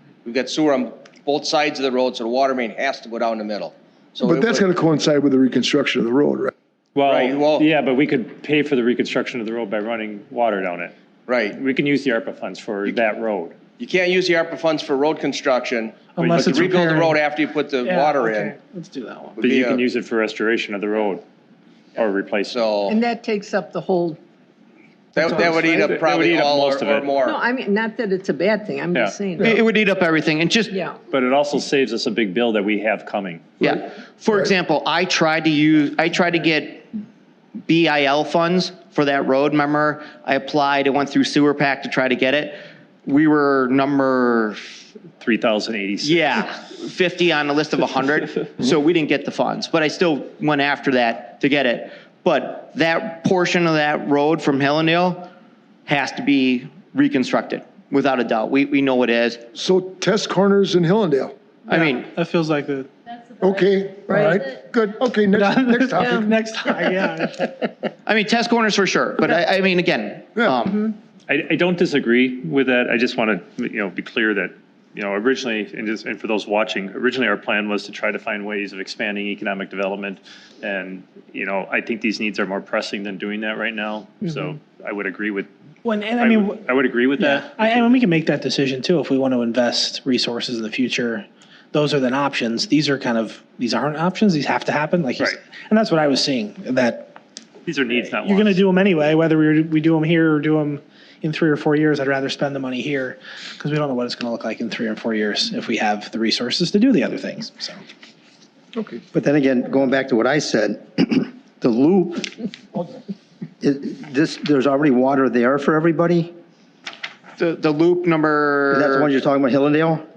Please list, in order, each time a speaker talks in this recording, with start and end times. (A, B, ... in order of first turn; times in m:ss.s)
0:00.2-0:04.7 A
0:04.2-0:06.5 B
0:07.0-0:10.9 C
0:07.1-0:07.7 A
0:11.3-0:11.6 A
0:11.5-0:13.6 C
0:13.8-0:18.5 A
0:16.2-0:17.2 D
0:16.2-0:16.9 C
0:17.8-0:19.4 D
0:19.4-0:19.8 A
0:19.4-0:21.2 C
0:22.0-0:22.7 C
0:22.5-0:23.0 A
0:22.9-0:24.2 E
0:25.2-0:27.4 A
0:25.2-0:27.2 C
0:25.3-0:25.5 D
0:27.2-0:29.5 E
0:28.9-0:29.2 C
0:29.4-0:30.8 F
0:30.7-0:31.0 E
0:31.1-0:33.4 C
0:33.6-0:36.9 F
0:37.7-0:44.6 F
0:45.2-0:46.5 C
0:46.0-0:55.3 F
0:55.9-0:59.5 F
0:59.5-1:01.3 B
1:01.7-1:02.1 F
1:01.7-1:02.9 D
1:03.4-1:06.9 B
1:04.1-1:04.4 E
1:05.3-1:07.6 D
1:08.1-1:10.9 F
1:11.3-1:25.5 C
1:25.8-1:26.6 D
1:26.2-1:28.0 C
1:27.2-1:37.1 D
1:37.7-1:38.7 C
1:38.2-1:47.8 D
1:49.1-1:52.3 G
1:53.6-1:56.3 G
1:57.4-1:59.1 F
1:58.7-2:00.0 G